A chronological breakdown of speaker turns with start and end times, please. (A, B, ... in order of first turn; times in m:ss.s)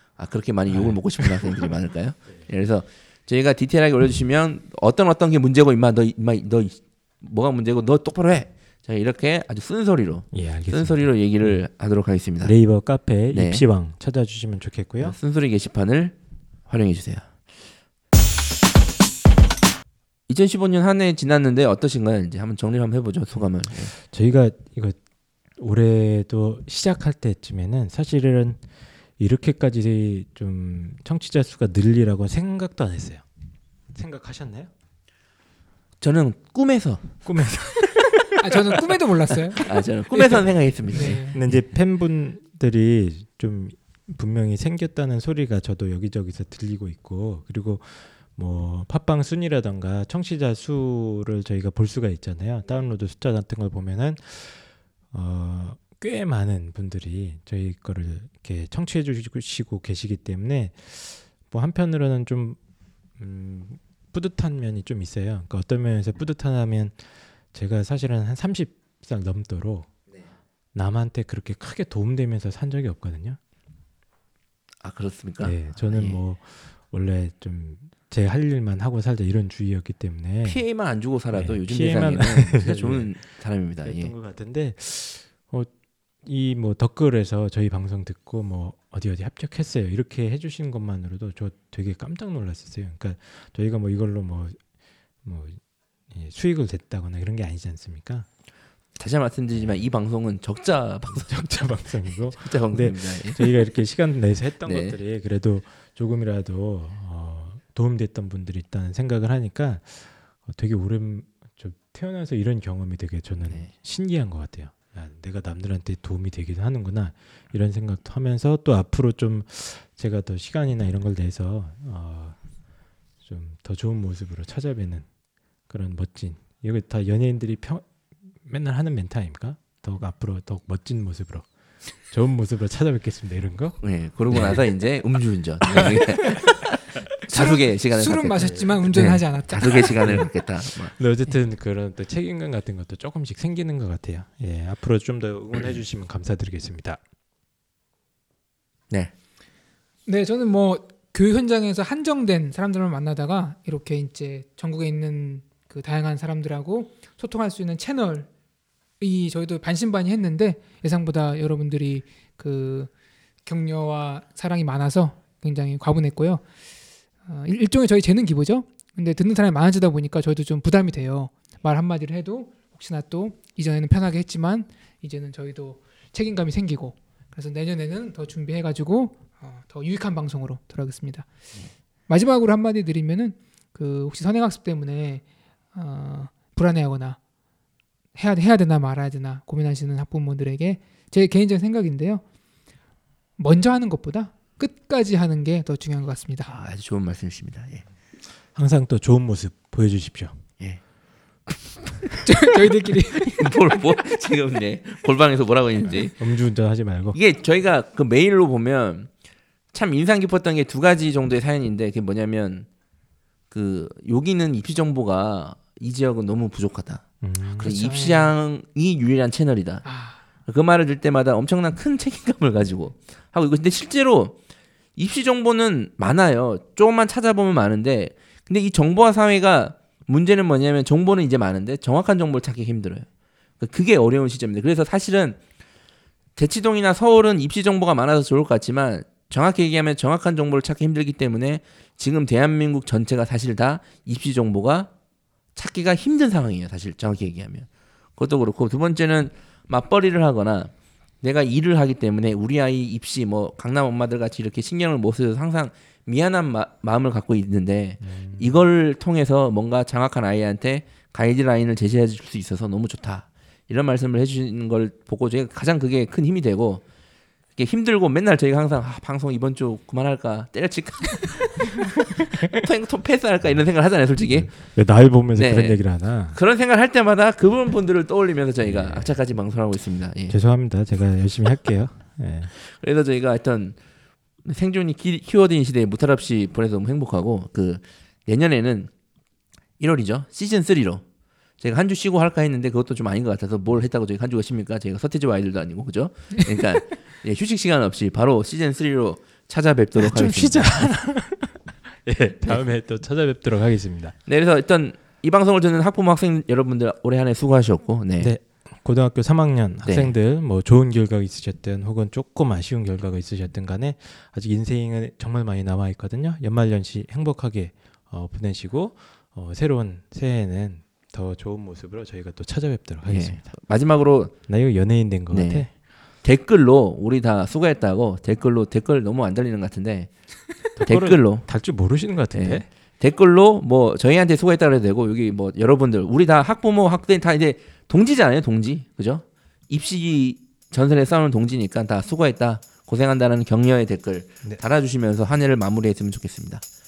0:00.2-0:12.5 A
0:00.7-0:01.5 B
0:10.3-0:11.6 B
0:12.4-0:15.2 B
0:13.3-0:13.6 A
0:15.0-0:16.2 A
0:16.7-0:17.3 A
0:20.3-0:23.9 A
0:23.9-0:25.0 B
0:25.6-0:28.6 B
0:29.2-0:33.2 B
0:33.9-0:34.7 B
0:36.0-0:38.1 A
0:37.2-0:38.4 B
0:38.4-0:40.4 C
0:39.5-0:41.2 A
0:40.9-0:41.4 C
0:41.0-1:02.6 B
1:03.2-1:07.0 B
1:07.5-1:09.9 B
1:10.7-1:13.4 B
1:14.8-1:16.2 A
1:15.4-1:20.6 B
1:20.4-1:24.1 A
1:21.3-1:23.1 B
1:23.8-1:25.7 B
1:26.2-1:34.6 B
1:35.2-1:38.3 B
1:39.0-1:41.4 A
1:41.2-2:02.4 B
1:42.4-1:43.5 A
1:44.6-1:45.0 A
2:03.2-2:05.1 B
2:05.7-2:07.9 B
2:08.4-2:11.5 B
2:12.0-2:13.8 B
2:13.8-2:21.0 A
2:14.3-2:14.6 B
2:15.7-2:16.4 B
2:17.3-2:20.3 C
2:20.9-2:27.0 B
2:30.1-2:38.3 C
2:39.0-2:42.9 C
2:43.4-2:46.4 C
2:47.3-3:01.3 C
3:02.1-3:07.2 C
3:08.2-3:12.2 C
3:13.4-3:16.5 C
3:16.5-3:17.8 A
3:18.6-3:20.4 B
3:21.5-3:22.4 A
3:22.2-3:23.5 C
3:23.2-3:26.2 A
3:25.9-3:27.2 B
3:27.1-3:29.1 A
3:29.7-3:32.7 A
3:33.5-3:37.0 A
3:37.2-3:37.7 B
3:37.6-3:39.8 A
3:37.6-3:38.3 C
3:39.8-3:40.2 C
3:40.5-3:44.4 A
3:45.0-3:53.1 A
3:53.6-3:55.4 A
3:56.4-4:04.9 A
4:05.6-4:26.8 A
4:18.0-4:18.6 B
4:27.6-4:34.5 A
4:34.3-4:36.4 B
4:35.4-4:35.8 A
4:36.3-4:40.4 A
4:38.6-4:39.1 B
4:40.3-4:42.5 B
4:42.6-4:43.8 A
4:44.4-4:48.9 A
4:49.8-4:51.0 A
4:51.6-5:00.9 A
5:00.0-5:04.2 B
5:04.3-5:08.3 A
5:08.2-5:23.5 B
5:09.8-5:10.1 A
5:23.1-5:24.4 A
5:24.5-5:25.7 B
5:25.3-5:25.7 A
5:26.2-5:30.1 A
5:30.8-5:32.7 B
5:30.8-5:31.5 A
5:32.3-5:46.6 A